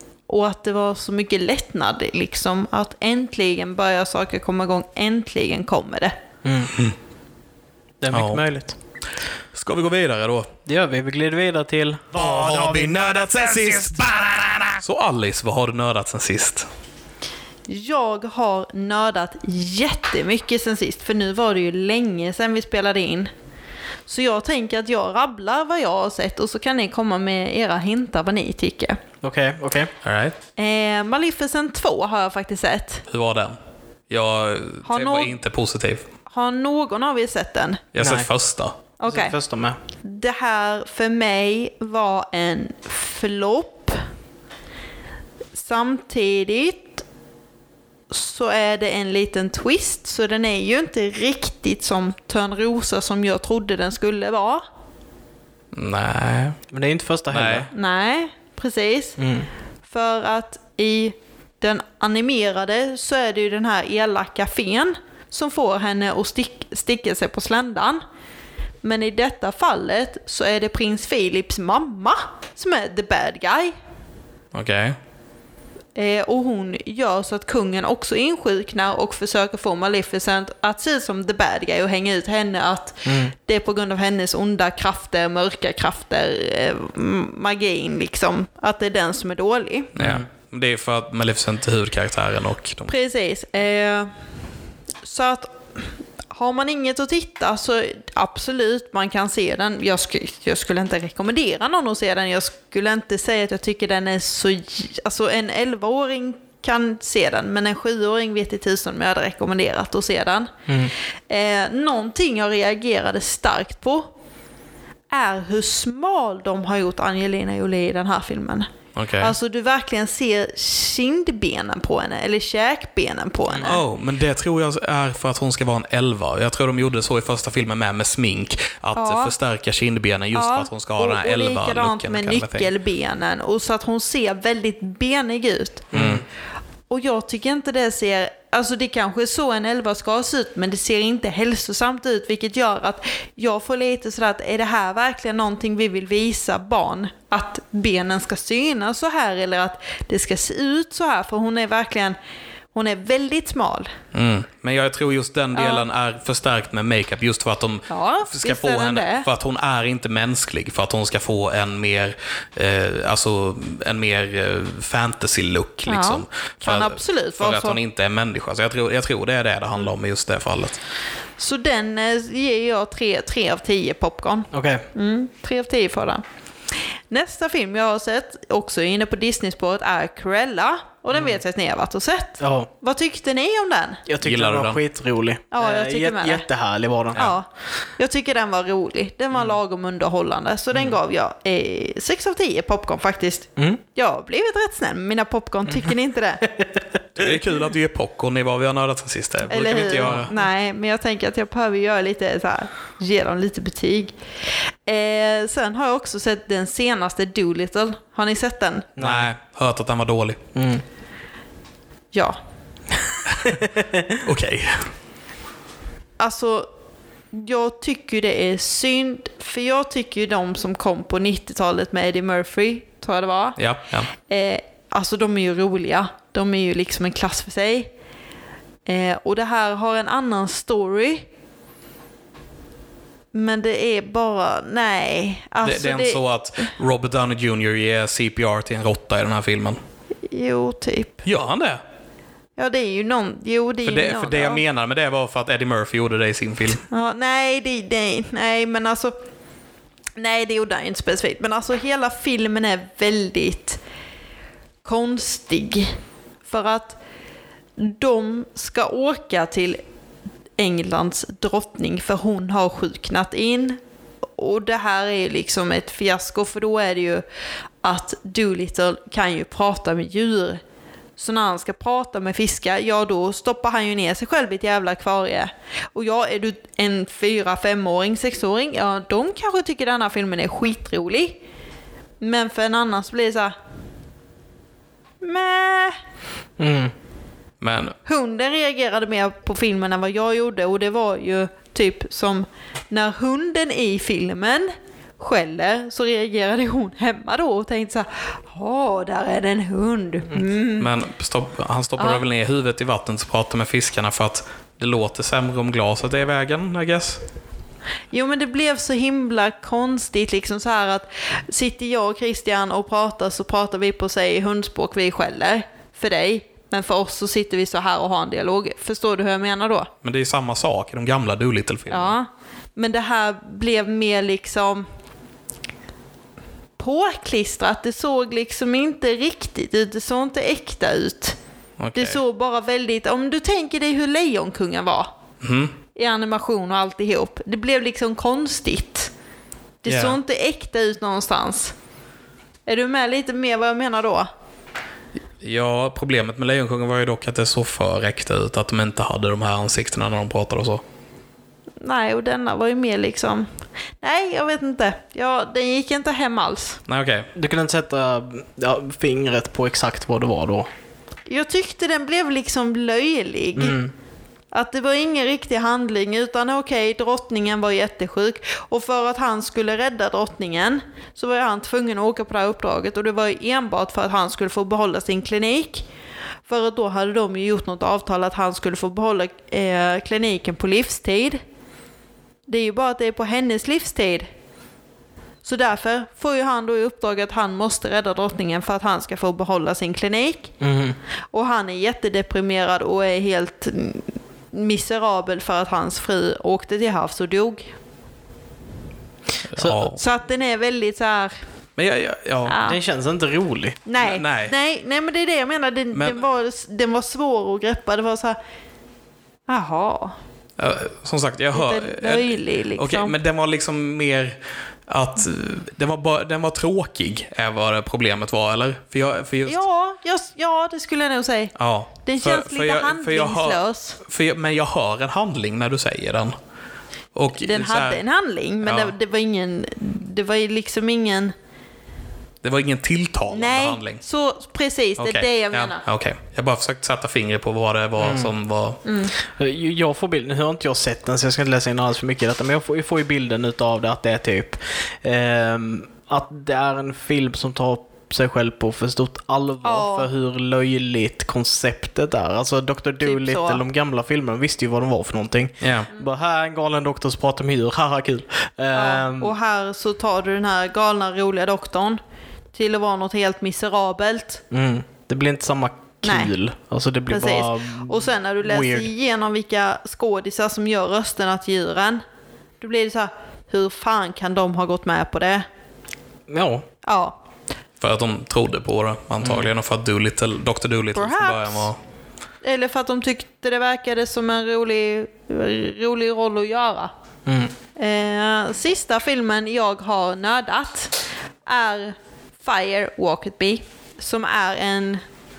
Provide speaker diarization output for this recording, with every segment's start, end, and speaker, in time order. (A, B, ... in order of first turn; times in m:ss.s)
0:00.3-0:06.2 A
0:06.4-0:06.7 B
0:08.0-0:08.8 B
0:08.1-0:08.4 C
0:09.5-0:10.5 C
0:10.7-0:12.2 B
0:12.1-0:16.7 C
0:17.7-0:23.3 A
0:24.1-0:29.0 A
0:29.2-0:29.9 B
0:30.0-0:30.4 C
0:30.6-0:33.0 A
0:33.1-0:33.6 C
0:34.1-0:36.0 C
0:34.9-0:35.3 A
0:36.3-0:37.8 A
0:37.9-0:38.8 C
0:38.0-0:38.3 B
0:39.0-0:39.4 A
0:39.1-0:39.8 B
0:40.0-0:44.0 A
0:45.5-0:47.0 A
0:48.1-0:54.6 A
0:55.7-0:56.6 C
0:56.7-0:57.7 B
0:57.3-0:57.7 C
0:57.7-0:59.2 A
0:59.2-0:59.5 B
0:59.9-1:08.0 A
1:08.8-1:13.7 A
1:14.5-1:15.0 C
1:16.0-1:29.9 A
1:23.0-1:23.3 B
1:30.0-1:32.9 C
1:30.0-1:30.3 B
1:32.9-1:34.1 A
1:35.0-1:50.5 A
1:50.7-1:50.9 B
1:51.3-1:54.1 A
1:55.1-1:58.7 A
1:59.0-1:59.4 C
1:59.2-2:03.8 A
2:03.5-2:03.8 B
2:03.6-2:12.7 C
2:09.0-2:09.3 A
2:10.3-2:15.9 A
2:15.9-2:16.2 B
2:15.9-2:16.2 C
2:16.9-2:32.2 A
2:32.7-2:33.9 A
2:34.1-2:50.8 C
2:35.6-2:35.8 A
2:37.9-2:39.3 A
2:45.9-2:47.8 A
2:51.4-2:56.2 A
2:54.5-2:54.8 B
2:57.1-3:04.0 A
3:02.4-3:02.7 B
3:04.1-3:07.3 B
3:04.2-3:04.8 C
3:05.5-3:06.5 A
3:07.1-3:07.5 A
3:08.0-3:16.4 A
3:17.2-3:20.3 C
3:19.5-3:24.2 A
3:20.0-3:20.5 B
3:24.9-3:28.9 A
3:29.0-3:29.3 B
3:29.0-3:30.4 C
3:30.6-3:30.8 B
3:33.6-3:34.0 B
3:34.2-3:34.9 C
3:36.2-3:36.7 A
3:37.3-3:43.6 A
3:43.6-3:44.1 C
3:44.2-3:47.9 A
3:48.9-3:51.3 A
3:53.3-3:56.2 A
3:55.6-3:59.8 C
4:00.3-4:01.2 A
4:01.2-4:01.8 C
4:02.6-4:04.6 A
4:03.8-4:06.8 C
4:06.9-4:09.1 A
4:10.2-4:13.8 A
4:14.8-4:17.0 A
4:17.8-4:19.8 A
4:20.6-4:23.8 A
4:24.4-4:27.2 A
4:27.8-4:30.6 A
4:31.2-4:41.4 A
4:42.2-4:43.6 A
4:45.2-4:46.0 A
4:46.6-4:46.9 B
4:47.6-4:48.0 C
4:48.1-5:00.9 A
5:00.8-5:07.2 C
5:02.0-5:02.2 A
5:08.1-5:19.9 A
5:20.0-5:22.2 C
5:21.9-5:24.9 A
5:26.8-5:31.4 A
5:31.8-5:32.2 C
5:32.0-5:35.1 A
5:35.4-5:35.8 C
5:35.9-5:39.1 A
5:39.8-5:41.8 A
5:39.9-5:40.2 C
5:42.7-5:44.3 A
5:45.4-5:50.8 C
5:51.8-5:53.5 A
5:54.0-5:56.8 A
5:56.9-5:57.3 C
5:57.4-6:00.7 B
6:01.3-6:03.8 A
6:03.6-6:03.9 B
6:04.5-6:15.9 A
6:16.5-6:21.4 A
6:22.5-6:24.3 A
6:25.4-6:30.5 A
6:30.6-6:31.0 B
6:31.3-6:37.7 A
6:39.5-6:40.0 C
6:39.9-6:41.4 A
6:41.8-6:42.6 C
6:42.5-6:42.8 A
6:42.6-6:43.8 B
6:43.9-6:48.4 A
6:44.0-6:44.5 C
6:45.9-6:46.2 C
6:49.5-6:50.2 A
6:50.6-6:59.6 C
6:51.5-6:53.1 A
6:59.5-7:04.0 A
7:01.6-7:06.4 C
7:07.1-7:08.0 C
7:07.4-7:11.3 A
7:08.6-7:08.9 C
7:12.4-7:14.0 C
7:13.3-7:15.8 A
7:15.0-7:18.8 C
7:18.0-7:18.3 B
7:18.8-7:19.1 A
7:19.2-7:39.3 B
7:29.6-7:30.1 A
7:33.0-7:33.6 A
7:35.6-7:35.9 C
7:38.7-7:42.0 A
7:42.5-7:44.4 A
7:44.5-7:48.9 B
7:46.0-7:46.3 A
7:47.1-7:52.0 A
7:52.6-7:55.5 A
7:56.3-7:56.7 B
7:56.8-7:57.2 A
7:57.8-8:01.8 C
7:59.2-7:59.5 B
8:00.9-8:01.7 A
8:02.4-8:06.9 A
8:07.3-8:07.5 B
8:07.8-8:15.0 A